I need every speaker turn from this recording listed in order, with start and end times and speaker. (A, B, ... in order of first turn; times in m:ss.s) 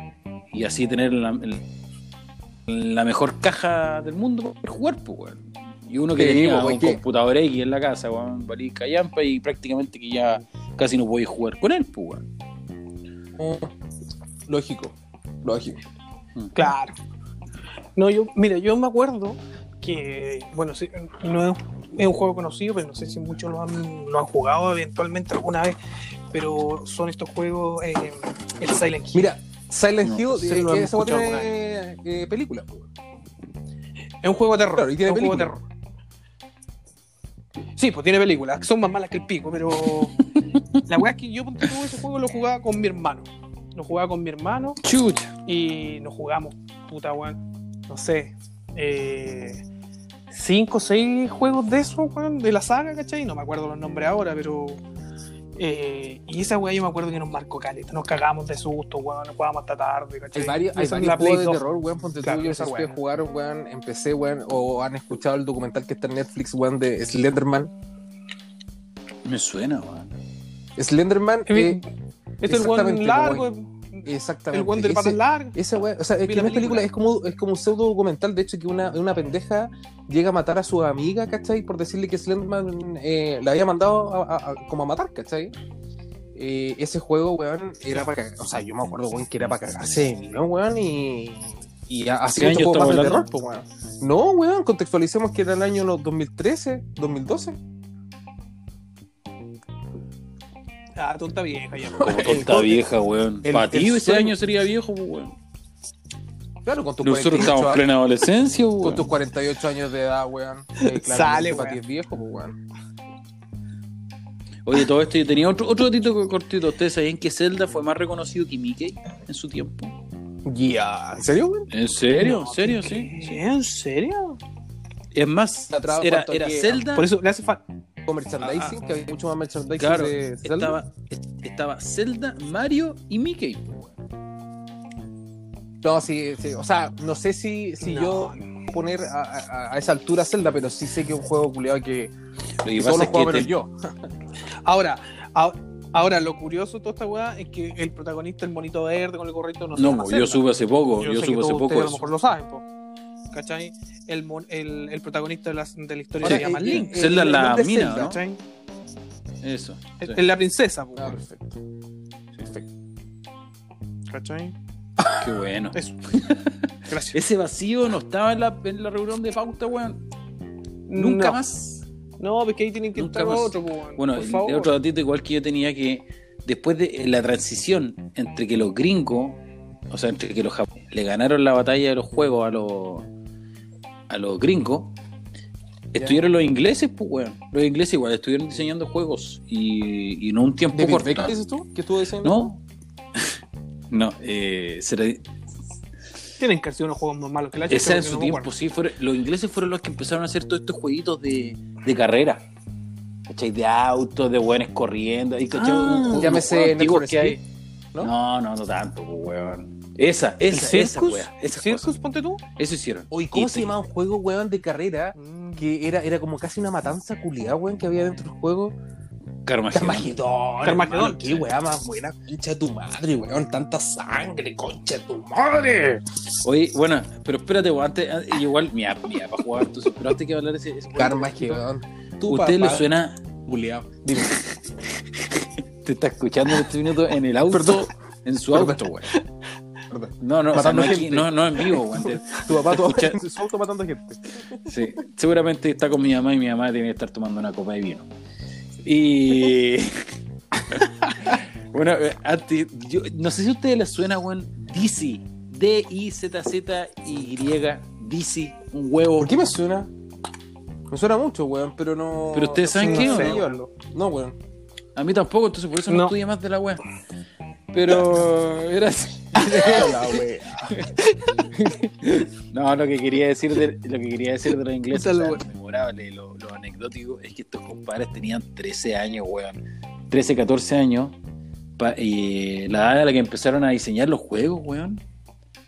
0:00.5-0:01.6 A
0:02.7-0:12.3 A
0:06.1-0:07.0 B
0:13.4-0:13.7 B
0:14.5-0:15.8 B
0:16.5-0:16.9 C
0:18.0-0:25.8 C
0:26.3-0:29.3 C
0:29.1-0:32.9 B
0:30.3-0:31.5 C
0:34.2-0:35.6 C
0:34.8-0:35.5 B
0:37.8-0:40.2 C
0:40.5-0:40.8 A
0:40.8-0:44.8 C
0:44.8-0:45.3 A
0:45.4-0:47.4 C
0:47.9-0:49.6 C
0:50.3-0:54.8 C
0:55.6-1:01.6 C
1:00.3-1:07.7 B
1:02.2-1:02.9 C
1:09.2-1:10.1 A
1:10.8-1:11.8 B
1:11.5-1:11.8 C
1:12.4-1:13.4 B
1:12.4-1:15.6 C
1:14.0-1:25.5 B
1:16.2-1:16.9 C
1:26.3-1:37.6 B
1:32.3-1:33.3 A
1:41.0-1:42.3 C
1:42.0-1:45.4 A
1:42.1-1:42.8 B
1:43.4-1:44.3 B
1:46.6-1:47.8 B
1:47.0-1:49.1 A
1:48.8-1:52.6 B
1:50.8-1:51.8 C
1:54.6-1:59.9 A
2:00.4-2:01.7 B
2:01.7-2:03.4 A
2:02.1-2:04.4 C
2:05.1-2:07.1 A
2:05.7-2:06.8 B
2:06.9-2:07.6 C
2:08.0-2:10.8 B
2:08.4-2:08.8 A
2:09.8-2:13.9 A
2:15.8-2:22.1 B
2:17.8-2:18.5 C
2:22.6-2:23.5 A
2:22.7-2:23.9 B
2:24.6-2:32.6 C
2:29.8-2:32.0 A
2:33.3-2:36.9 C
2:36.2-2:38.2 B
2:36.2-2:38.2 A
2:38.0-2:38.4 C
2:39.4-2:40.2 A
2:40.0-2:41.2 C
2:41.0-2:41.6 B
2:42.4-2:42.6 A
2:44.1-2:44.5 C
2:45.1-2:50.0 A
2:46.9-2:47.2 C
2:50.9-2:51.4 C
2:50.9-2:51.8 A
2:52.2-2:54.7 C
2:52.9-2:59.4 A
2:59.9-3:03.1 A
3:04.1-3:04.9 A
3:05.9-3:11.3 A
3:06.0-3:06.2 B
3:10.7-3:12.5 B
3:12.2-3:12.6 A
3:13.9-3:15.2 A
3:16.4-3:18.4 C
3:17.7-3:22.4 A
3:23.3-3:27.4 A
3:25.6-3:27.4 B
3:28.0-3:31.9 A
3:30.5-3:32.4 C
3:32.6-3:33.7 A
3:33.1-3:38.7 B
3:35.2-3:35.7 C
3:39.4-3:40.1 A
3:39.7-3:46.0 B
3:40.6-3:41.4 C
3:46.4-3:51.6 A
3:50.9-3:52.9 B
3:52.2-3:53.2 A
3:53.4-3:54.3 B
3:54.2-3:59.1 A
3:57.5-3:57.9 B
3:58.5-3:58.8 B
3:59.9-4:04.6 B
4:00.2-4:03.2 A
4:04.6-4:08.1 A
4:08.8-4:10.1 A
4:10.7-4:19.3 A
4:19.2-4:19.9 B
4:20.9-4:24.4 B
4:22.3-4:23.4 A
4:22.8-4:23.5 C
4:25.0-4:26.8 A
4:25.9-4:26.1 C
4:27.7-4:41.2 A
4:29.3-4:30.8 B
4:31.0-4:31.4 C
4:34.9-4:35.4 C
4:41.8-4:45.0 A